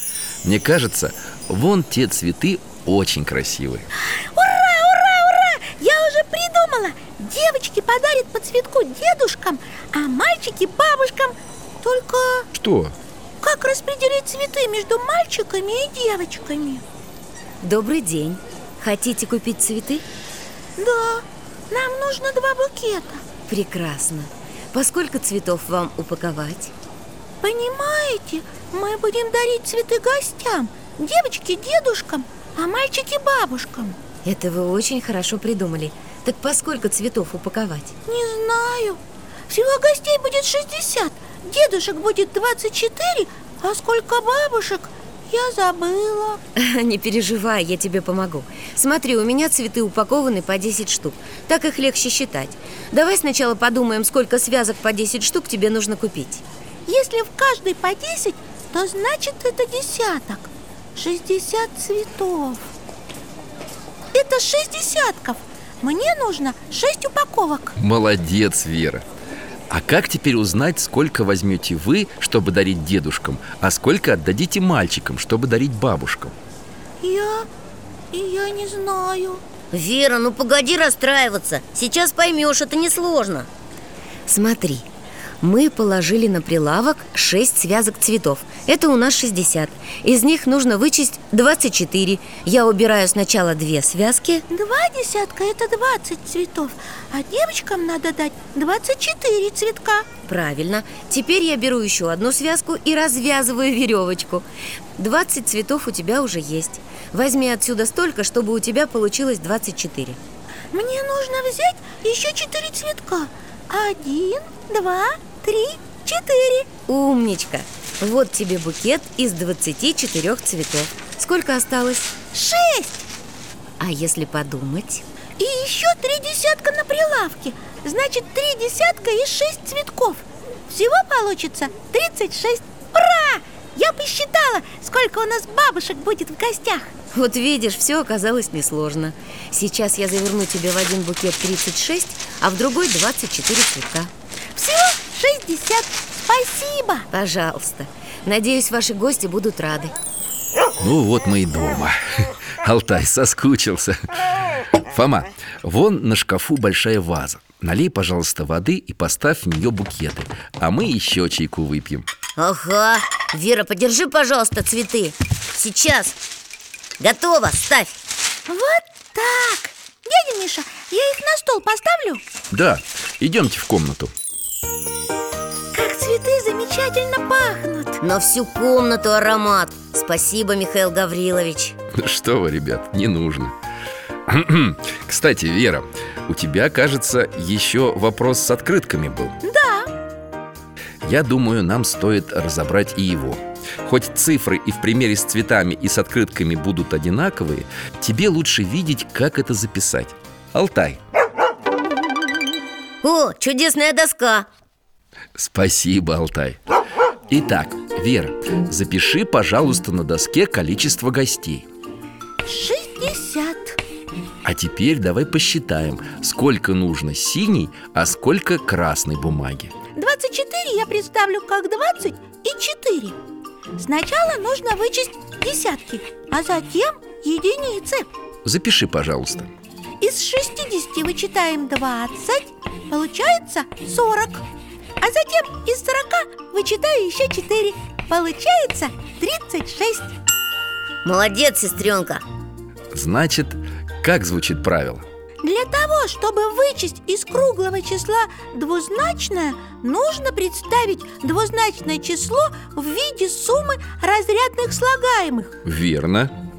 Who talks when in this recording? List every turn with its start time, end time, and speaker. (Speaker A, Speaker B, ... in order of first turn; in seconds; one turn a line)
Speaker A: 0.4-3.9
Speaker B: 4.0-12.5
Speaker A: 12.5-12.9
Speaker B: 13.4-16.8
Speaker C: 17.6-20.0
Speaker B: 20.8-23.2
Speaker C: 23.5-26.7
Speaker B: 27.4-34.0
Speaker C: 34.2-37.9
Speaker B: 38.0-46.4
Speaker C: 46.6-56.4
Speaker B: 56.9-62.6
Speaker B: 64.1-67.8
Speaker A: 67.8-69.0
Speaker A: 69.7-76.3
Speaker B: 77.0-77.5
Speaker B: 78.1-79.4
Speaker D: 79.7-83.5
Speaker C: 84.3-84.9
Speaker C: 85.4-94.4
Speaker B: 94.5-100.1
Speaker C: 100.3-104.5
Speaker C: 105.0-110.2
Speaker B: 110.7-116.7
Speaker C: 116.9-122.2
Speaker B: 122.3-123.0
Speaker C: 123.8-125.0
Speaker B: 125.4-136.9
Speaker C: 137.1-144.1
Speaker B: 144.6-147.1
Speaker C: 147.1-149.9
Speaker A: 150.8-152.0
Speaker A: 152.6-154.0
Speaker A: 154.9-162.1
Speaker D: 162.4-166.2
Speaker D: 167.0-168.0
Speaker B: 168.5-172.2
Speaker A: 172.5-174.1
Speaker B: 175.7-178.0
Speaker D: 178.0-181.8
Speaker A: 182.0-183.5
Speaker A: 184.3-189.4
Speaker B: 189.4-189.9
Speaker A: 191.0-201.0
Speaker D: 203.0-204.5
Speaker A: 205.4-206.6
Speaker A: 207.3-211.7
Speaker B: 212.5-213.8
Speaker A: 214.4-219.7
Speaker B: 219.9-223.2
Speaker B: 223.8-228.1
Speaker A: 228.4-229.5
Speaker B: 230.0-234.4
Speaker B: 235.0-240.1
Speaker D: 241.0-242.2
Speaker A: 242.9-245.1
Speaker B: 245.4-255.5
Speaker A: 255.7-256.3